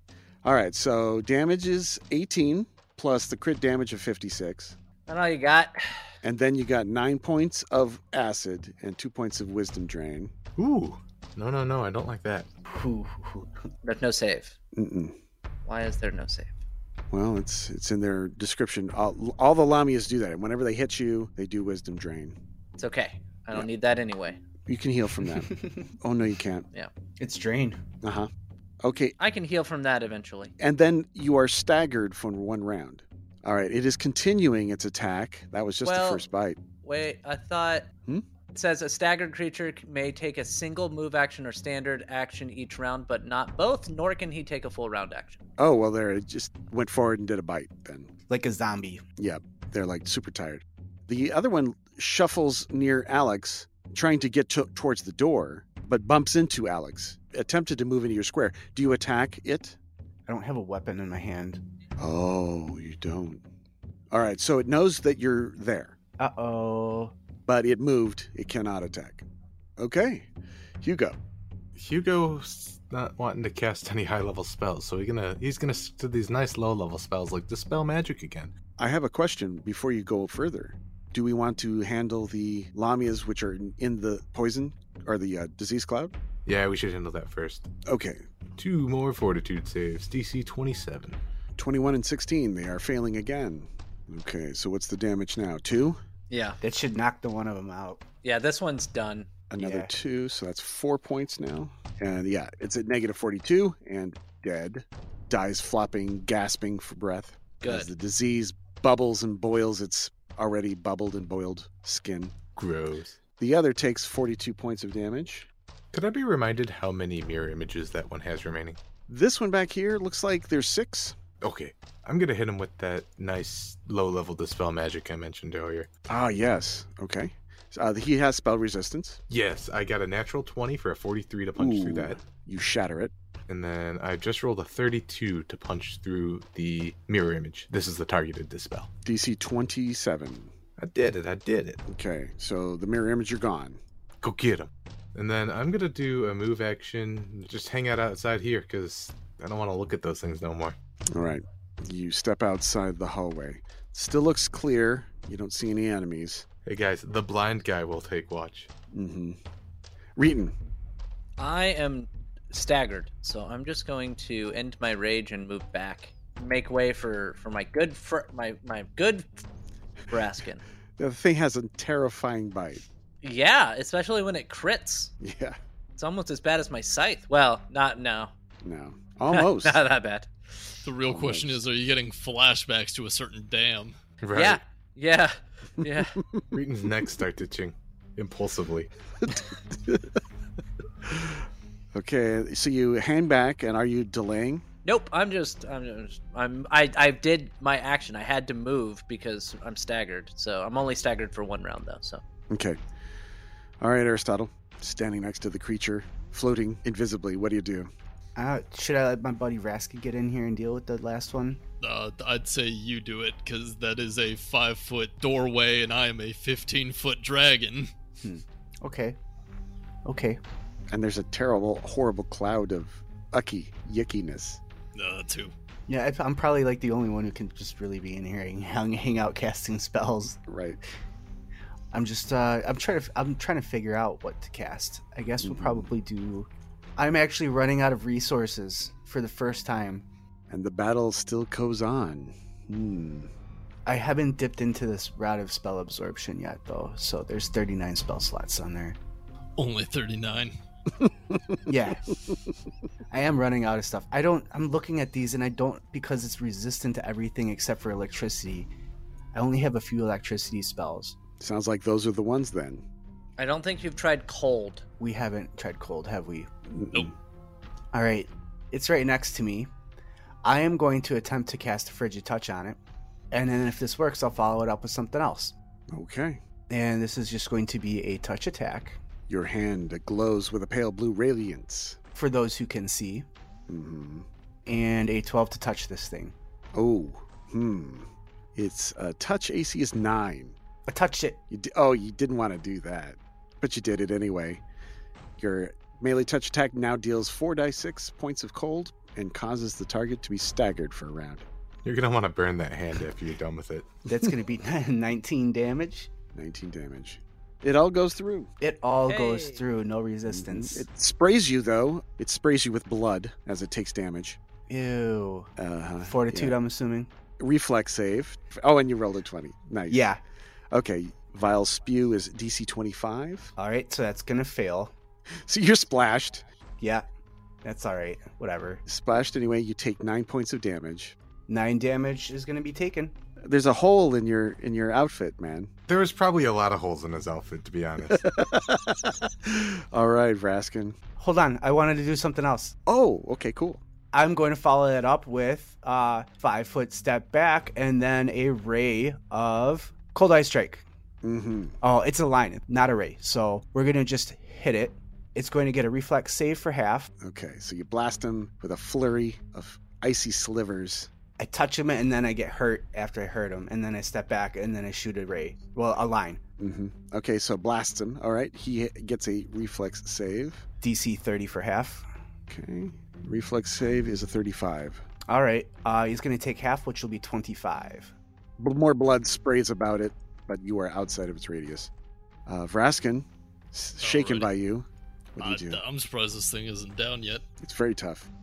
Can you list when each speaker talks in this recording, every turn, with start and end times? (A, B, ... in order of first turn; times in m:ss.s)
0:00.4-0:04.8 A
0:05.0-0:06.1 B
0:06.2-0:10.3 A
0:10.6-0:12.5 C
0:12.6-0:13.5 D
0:13.8-0:14.5 B
0:14.7-0:15.2 A
0:15.6-0:16.5 B
0:17.1-0:22.4 A
0:22.8-0:24.4 B
0:24.7-0:26.6 A
0:25.3-0:25.8 D
0:27.2-0:27.8 D
0:28.0-0:28.3 A
0:28.8-0:29.2 A
0:29.2-0:30.5 B
0:30.6-0:36.6 A
0:35.8-0:36.3 B
0:36.8-0:37.9 B
0:38.5-0:45.4 B
0:45.6-0:48.1 A
0:48.3-0:49.0 D
0:49.2-0:59.8 A
1:00.3-1:01.6 D
1:02.0-1:03.4 A
1:04.1-1:05.9 A
1:06.2-1:07.1 D
1:07.4-1:09.2 A
1:09.8-1:10.3 A
1:10.8-1:11.2 A
1:11.8-1:18.5 C
1:18.8-1:26.1 A
1:26.4-1:27.7 C
1:27.8-1:28.2 A
1:28.6-1:31.2 C
1:31.6-1:36.0 A
1:36.3-1:36.6 B
1:36.6-1:38.0 D
1:38.2-1:39.3 B
1:39.5-1:52.3 A
1:39.6-1:39.9 D
1:47.6-1:47.9 B
1:52.6-1:53.2 C
1:53.4-1:55.5 A
1:55.9-1:58.8 C
1:59.1-2:01.2 A
2:01.4-2:05.9 C
2:06.1-2:09.2 A
2:09.3-2:12.2 C
2:11.6-2:13.1 A
2:13.5-2:18.9 C
2:19.0-2:20.5 A
2:20.8-2:21.8 C
2:21.9-2:23.8 A
2:24.2-2:30.8 C
2:31.1-2:36.5 A
2:36.6-2:38.7 C
2:38.9-2:39.4 A
2:40.2-2:40.5 A
2:41.4-2:49.4 B
2:50.1-2:50.6 B
2:51.0-2:52.8 A
2:53.2-2:55.1 B
2:55.2-2:55.6 A
2:56.0-2:58.3 B
2:58.6-2:59.8 A
2:59.3-3:00.8 B
3:00.8-3:04.0 E
3:01.0-3:01.6 A
3:04.2-3:04.6 C
3:04.3-3:06.2 B
3:06.2-3:06.5 A
3:06.5-3:08.9 C
3:11.0-3:11.4 A
3:11.9-3:14.6 A
3:14.8-3:22.2 B
3:22.5-3:22.8 A
3:23.8-3:27.9 A
3:28.4-3:31.6 D
3:31.8-3:37.9 E
3:38.2-3:39.2 D
3:40.0-3:40.4 D
3:40.9-3:44.6 A
3:44.9-3:45.5 E
3:45.9-3:50.4 D
3:50.5-3:50.8 A
3:51.9-4:00.0 D
3:55.4-3:55.9 A
4:00.5-4:03.3 A
4:03.8-4:09.0 D
4:09.6-4:10.5 E
4:11.3-4:11.6 A
4:11.7-4:12.1 D
4:13.1-4:18.7 D
4:19.3-4:21.2 D
4:21.4-4:22.8 A
4:23.4-4:24.8 B
4:25.0-4:26.5 D
4:26.7-4:27.1 A
4:27.9-4:29.7 D
4:30.4-4:32.8 D
4:33.3-4:35.5 D
4:35.9-4:36.4 A
4:36.7-4:39.0 D
4:39.3-4:42.0 A
4:42.1-4:43.3 D
4:43.7-4:44.3 A
4:44.6-4:46.3 D
4:46.7-4:50.6 A
4:50.9-4:51.4 D
4:51.5-4:54.6 A
4:55.4-5:01.4 A
5:01.8-5:03.8 C
5:04.0-5:06.1 D
5:06.3-5:08.5 A
5:08.6-5:10.8 D
5:09.1-5:09.6 B
5:10.3-5:14.4 A
5:14.7-5:15.5 D
5:15.6-5:16.6 A
5:16.0-5:17.1 D
5:17.4-5:20.0 A
5:19.9-5:20.2 D
5:20.7-5:23.5 A
5:23.6-5:24.9 D
5:25.4-5:26.4 A
5:26.8-5:27.0 D
5:27.6-5:28.8 D
5:28.9-5:31.2 A
5:31.5-5:33.1 D
5:33.4-5:35.7 A
5:35.9-5:38.3 C
5:38.1-5:41.0 A
5:41.2-5:42.7 D
5:42.8-5:43.8 A
5:44.1-5:50.8 D
5:51.2-5:51.8 A
5:51.8-5:57.1 D
5:57.2-6:01.1 A
6:01.4-6:06.4 D
6:06.6-6:10.6 A
6:10.8-6:12.1 D
6:12.5-6:15.0 A
6:15.3-6:18.1 D
6:18.6-6:21.9 A
6:22.4-6:25.8 A
6:24.0-6:24.5 E
6:25.4-6:27.4 E
6:27.6-6:28.3 A